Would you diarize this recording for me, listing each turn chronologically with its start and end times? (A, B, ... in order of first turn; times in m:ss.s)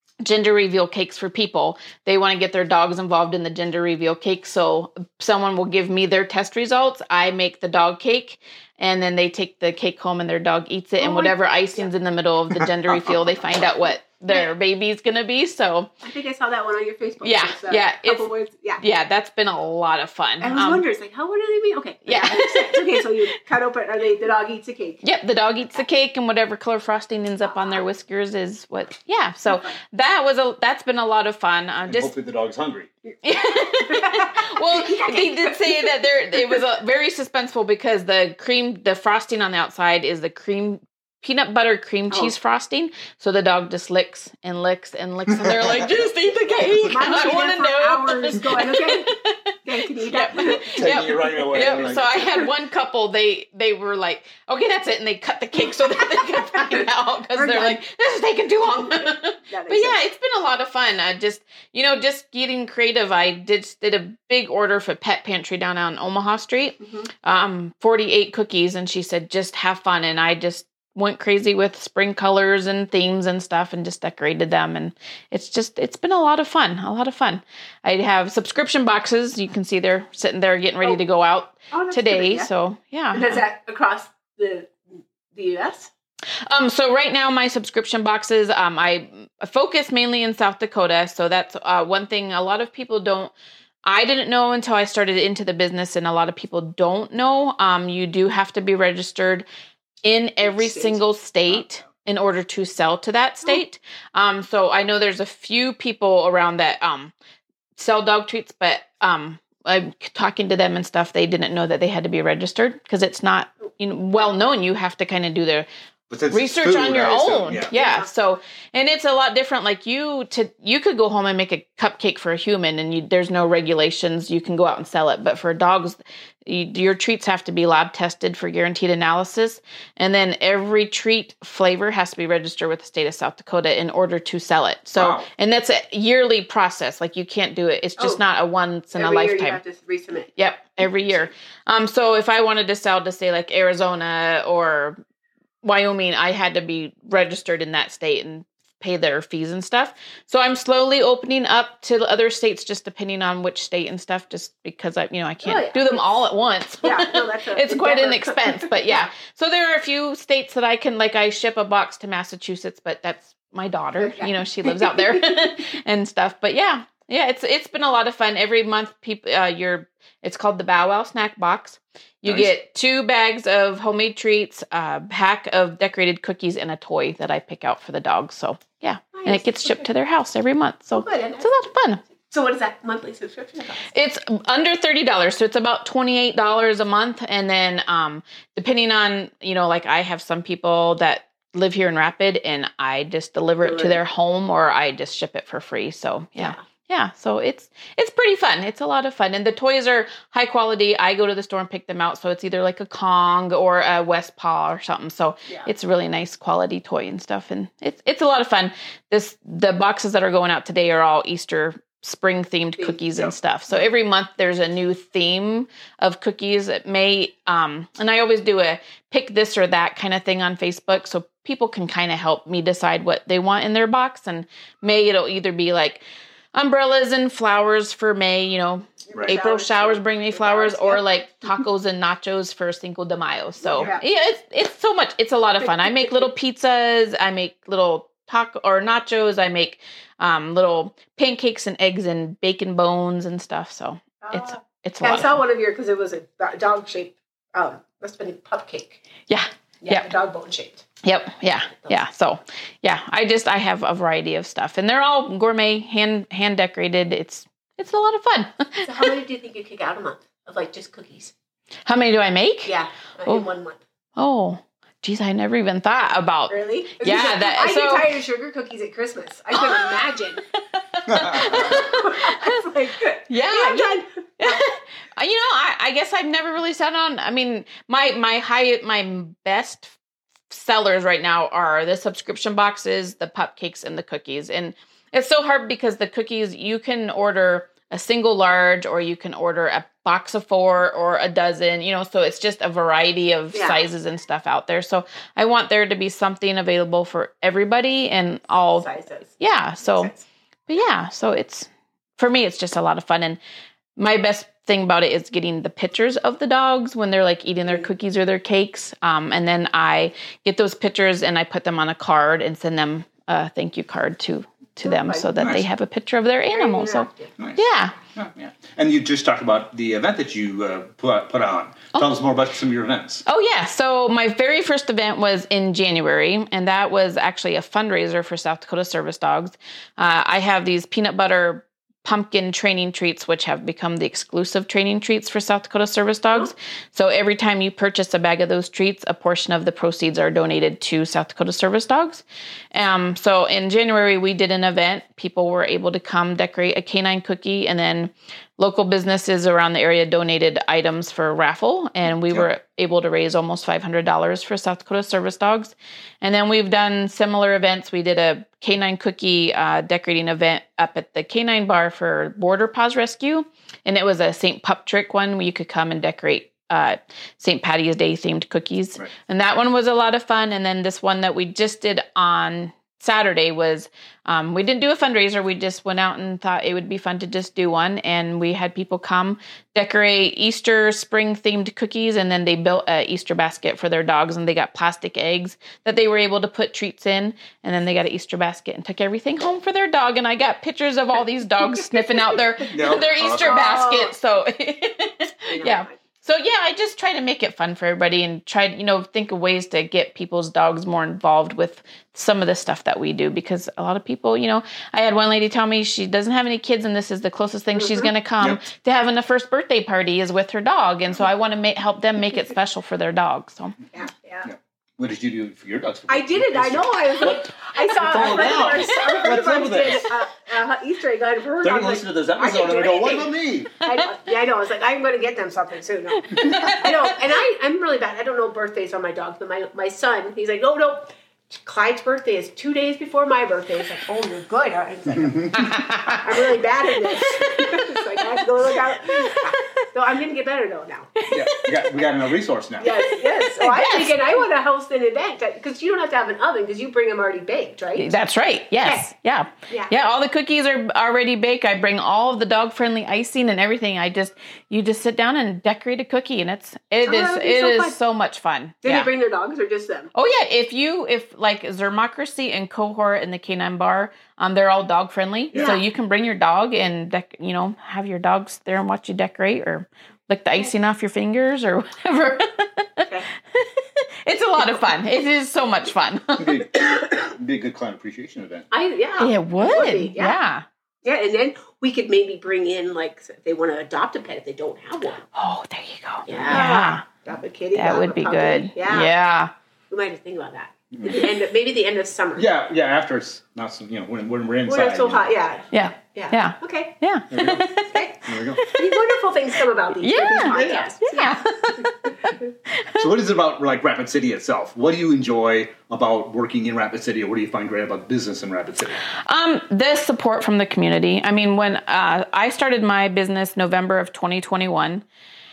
0:00.2-0:15.9 A
0:11.0-0:11.9 B
0:12.9-0:13.2 C
0:16.0-0:18.8 B
0:17.2-0:18.3 A
0:18.8-0:20.8 A
0:20.4-0:25.0 B
0:22.0-0:23.0 A
0:25.0-0:32.1 A
0:27.4-0:27.8 B
0:29.4-0:29.7 B
0:31.9-0:32.9 C
0:33.2-0:49.4 A
0:33.4-0:36.6 B
0:45.4-0:45.7 C
0:46.4-0:49.1 B
0:49.6-0:52.3 B
0:50.0-1:23.4 A
0:50.4-0:52.3 C
0:55.6-0:57.8 B
0:58.8-1:00.0 B
1:06.8-1:07.1 B
1:21.7-1:22.5 B
1:23.1-1:24.8 B
1:25.3-1:25.9 B
1:26.4-1:33.3 A
1:33.8-1:39.4 A
1:40.0-1:47.1 A
1:40.4-1:41.0 B
1:47.8-1:55.7 A
1:54.2-1:54.4 B
1:56.1-1:57.7 C
1:56.3-2:19.6 A
1:57.7-1:58.1 B
2:15.0-2:15.3 C
2:18.9-2:20.3 B
2:20.4-2:25.0 A
2:20.8-2:21.3 B
2:25.6-3:02.0 A
2:35.4-2:36.2 B
2:36.8-2:39.1 B
2:44.0-2:45.4 B
2:52.2-2:52.5 C
2:59.1-2:59.9 B
3:00.9-3:01.6 B
3:02.2-3:03.9 B
3:03.9-3:46.0 A
3:13.6-3:14.0 B
3:32.8-3:33.8 B
3:46.5-4:05.4 A
3:49.1-3:51.6 B
3:53.6-3:54.0 B
3:55.6-3:56.3 B
4:04.2-4:09.0 B
4:09.3-4:10.0 A
4:09.8-4:10.8 B
4:11.0-4:19.1 A
4:18.8-4:21.3 B
4:21.8-4:22.8 A
4:22.6-4:23.8 B
4:24.2-4:28.1 A
4:26.5-4:30.4 B
4:29.5-4:30.0 A
4:30.5-4:32.6 A
4:31.1-4:31.8 C
4:31.3-4:34.6 B
4:33.3-4:40.0 A
4:40.5-4:58.9 A
4:53.5-4:53.8 B
4:58.7-5:00.2 B
4:59.4-5:00.1 A
5:00.7-5:03.4 A
5:04.0-5:17.9 A
5:14.8-5:15.3 B
5:15.4-5:15.6 C
5:16.5-5:17.3 B
5:18.1-5:23.2 C
5:23.2-6:53.8 A
6:31.7-6:34.1 B
6:32.7-6:33.6 C
6:35.5-6:36.0 B
6:47.7-6:48.1 B
6:53.9-6:54.5 B
6:54.4-7:00.1 C
6:56.1-7:21.1 B
6:58.2-6:59.2 A
7:01.6-7:03.8 C
7:06.3-7:06.9 A
7:15.2-7:15.6 C
7:15.5-7:16.4 A
7:17.0-7:18.4 A
7:19.0-7:19.8 A
7:21.2-7:21.9 A
7:21.3-7:22.9 C
7:22.8-7:28.2 B
7:22.8-7:24.4 A
7:28.0-7:39.1 A
7:28.8-7:29.1 B
7:37.0-7:38.0 B
7:38.8-7:40.1 B
7:40.1-7:56.5 A
7:45.5-7:45.8 C
7:45.5-7:45.8 B
7:56.4-7:58.7 C
7:58.7-8:00.4 B
7:59.2-8:00.6 A
8:01.0-8:05.2 B
8:05.3-8:07.0 A
8:06.3-8:09.1 B
8:07.7-8:09.5 A
8:09.9-8:12.4 B
8:10.9-8:11.3 C
8:12.4-8:15.2 C
8:14.6-8:16.9 B
8:15.7-8:19.1 A
8:17.3-8:17.7 C
8:17.9-8:21.4 B
8:18.2-8:18.6 C
8:20.0-8:23.0 A
8:22.9-8:29.0 C
8:29.2-8:35.0 A